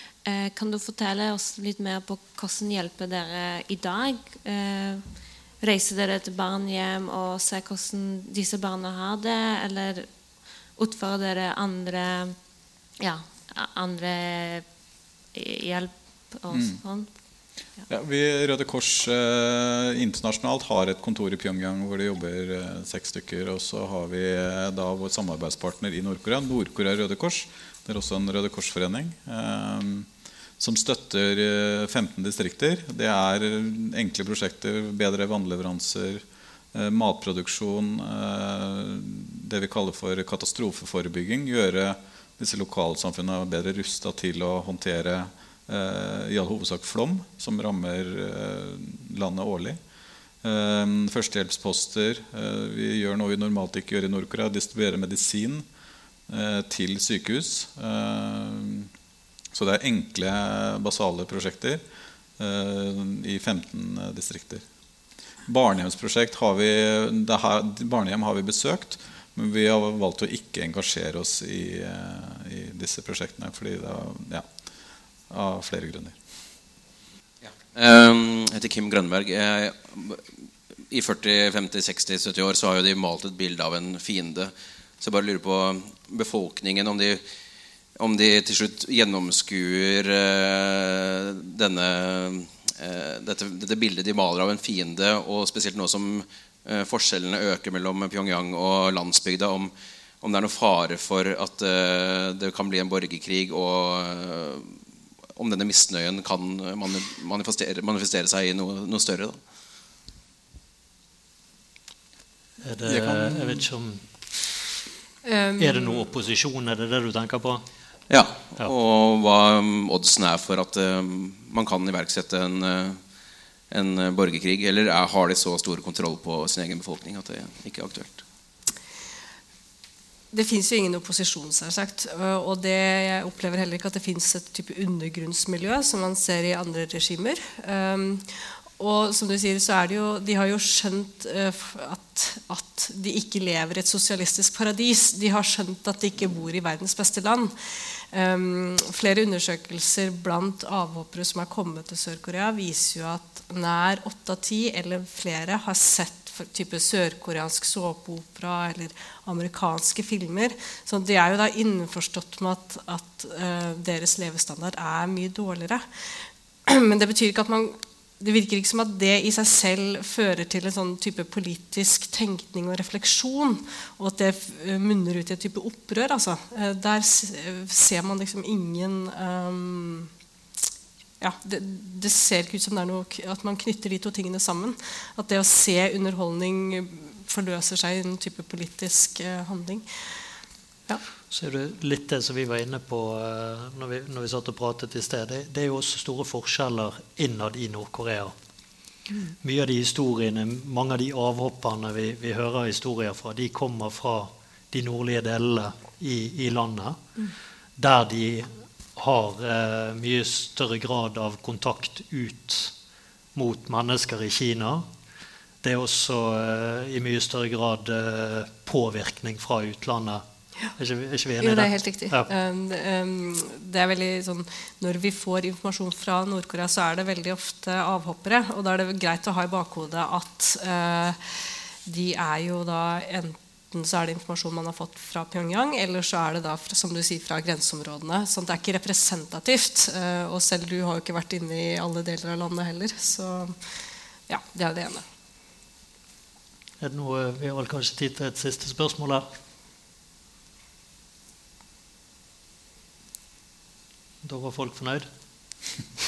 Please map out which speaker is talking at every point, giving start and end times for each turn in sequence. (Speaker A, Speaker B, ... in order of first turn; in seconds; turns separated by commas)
Speaker A: 0.2-5.0, Speaker A: 5.6-10.1, Speaker A: 10.8-12.4, Speaker A: 13.0-14.7, Speaker A: 15.3-17.1, Speaker B: 16.5-16.8, Speaker B: 17.9-30.1, Speaker B: 30.6-49.8, Speaker B: 50.4-55.6, Speaker B: 56.3-58.9, Speaker B: 59.5-61.8, Speaker B: 62.4-64.6, Speaker B: 65.5-74.5, Speaker B: 75.3-76.2, Speaker C: 77.4-80.3, Speaker C: 80.9-87.2, Speaker C: 88.0-104.8, Speaker C: 105.3-109.4, Speaker D: 112.6-114.0, Speaker B: 112.8-113.6, Speaker E: 115.2-116.0, Speaker D: 115.6-117.6, Speaker C: 118.1-123.0, Speaker C: 123.7-128.2, Speaker E: 130.3-180.1, Speaker E: 181.2-189.8, Speaker D: 191.3-198.3, Speaker D: 199.4-207.0, Speaker D: 207.8-212.7, Speaker D: 213.3-214.9, Speaker D: 215.6-220.2, Speaker D: 220.8-222.3, Speaker E: 221.4-245.0, Speaker D: 246.8-249.3, Speaker D: 254.2-255.1